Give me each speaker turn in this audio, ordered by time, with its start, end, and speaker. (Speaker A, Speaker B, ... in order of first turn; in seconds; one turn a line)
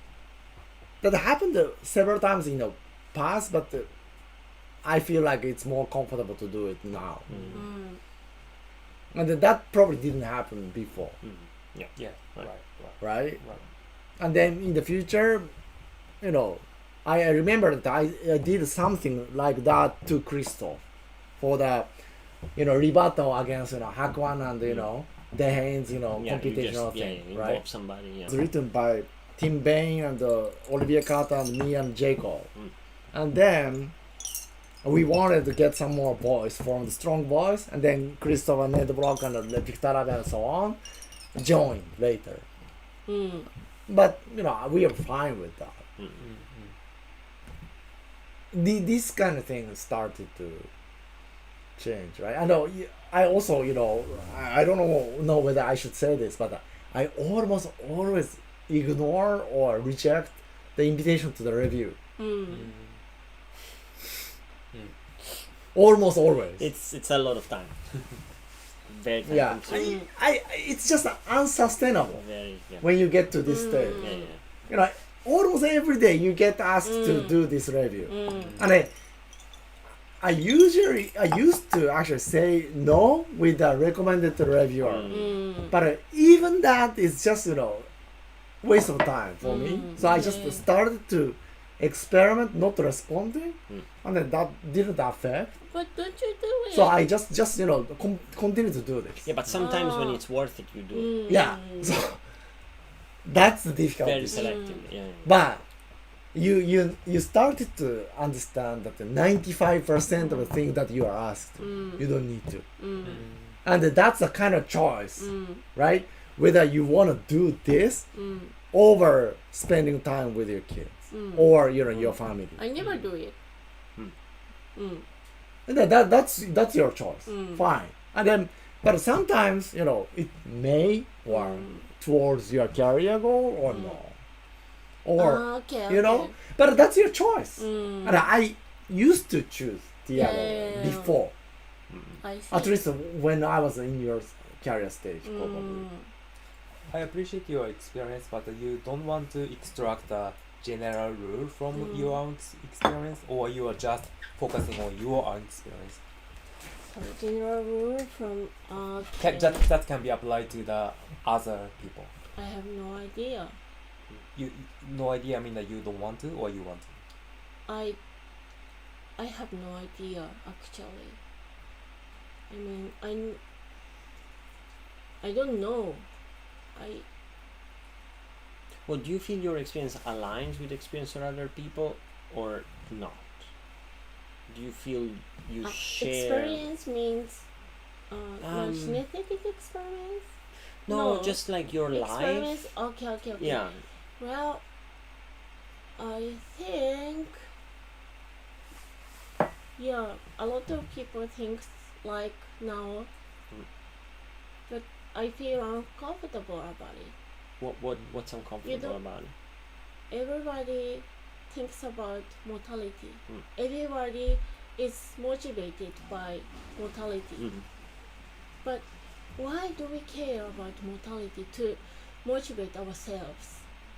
Speaker A: 1.0-3.9
Speaker A: 4.8-7.3
Speaker B: 7.3-7.6
Speaker C: 7.5-8.0
Speaker A: 9.1-11.2
Speaker B: 11.2-12.5
Speaker D: 12.0-13.6
Speaker A: 13.0-13.4
Speaker A: 14.2-15.5
Speaker A: 16.2-20.8
Speaker A: 21.4-21.9
Speaker A: 22.6-27.6
Speaker B: 24.6-24.9
Speaker B: 26.1-28.4
Speaker A: 28.3-32.5
Speaker A: 33.1-33.9
Speaker A: 34.8-40.8
Speaker A: 41.4-42.5
Speaker C: 43.1-43.5
Speaker A: 43.9-45.8
Speaker D: 46.2-46.7
Speaker A: 48.5-50.7
Speaker A: 51.8-62.0
Speaker C: 62.2-62.7
Speaker D: 62.5-63.0
Speaker A: 65.7-66.7
Speaker B: 66.6-67.8
Speaker B: 68.9-70.0
Speaker A: 69.3-72.2
Speaker C: 69.7-70.1
Speaker B: 72.1-72.9
Speaker A: 72.8-74.1
Speaker C: 73.5-74.3
Speaker B: 74.0-74.4
Speaker A: 74.7-78.9
Speaker C: 76.8-77.5
Speaker C: 78.1-78.6
Speaker A: 80.2-85.2
Speaker B: 84.8-85.4
Speaker C: 85.1-85.8
Speaker A: 85.7-87.9
Speaker A: 88.6-95.5
Speaker C: 89.4-90.7
Speaker C: 95.7-97.0
Speaker A: 96.7-99.3
Speaker B: 99.2-101.2
Speaker C: 99.5-100.2
Speaker C: 100.9-102.0
Speaker A: 101.3-102.2
Speaker A: 103.3-104.6
Speaker B: 104.0-105.4
Speaker C: 104.3-104.9
Speaker A: 105.2-105.6
Speaker A: 106.3-112.6
Speaker C: 110.2-110.6
Speaker C: 111.6-112.1
Speaker C: 112.8-113.2
Speaker D: 113.0-113.5
Speaker A: 113.6-118.1
Speaker C: 115.2-115.7
Speaker C: 118.1-118.5
Speaker A: 118.7-122.6
Speaker C: 121.1-121.6
Speaker B: 121.9-122.2
Speaker C: 122.6-123.4
Speaker D: 122.8-123.0
Speaker C: 124.8-125.0
Speaker A: 125.7-134.2
Speaker C: 127.3-127.7
Speaker C: 131.3-131.9
Speaker C: 133.7-134.0
Speaker A: 135.0-141.3
Speaker C: 135.2-136.4
Speaker C: 137.6-138.3
Speaker C: 140.1-141.2
Speaker B: 141.9-142.2
Speaker C: 142.2-142.8
Speaker A: 142.5-145.9
Speaker C: 145.2-146.1
Speaker D: 146.9-156.0
Speaker C: 151.7-152.2
Speaker C: 156.9-159.7
Speaker D: 159.2-162.1
Speaker C: 162.3-163.6
Speaker D: 164.3-167.0
Speaker C: 167.7-168.0
Speaker C: 169.2-171.2
Speaker C: 172.5-173.4
Speaker C: 175.2-176.1
Speaker C: 176.8-177.1
Speaker B: 178.9-183.5
Speaker B: 184.5-186.7
Speaker C: 185.6-187.5
Speaker C: 188.1-190.3
Speaker B: 188.4-189.0
Speaker B: 190.9-192.7
Speaker C: 190.9-193.7
Speaker B: 193.4-193.8
Speaker C: 194.2-194.6
Speaker C: 196.0-197.4
Speaker C: 199.8-203.1
Speaker C: 204.7-207.1
Speaker B: 207.6-209.3
Speaker C: 208.6-209.0
Speaker C: 210.1-217.5
Speaker B: 217.4-217.7
Speaker C: 218.6-223.7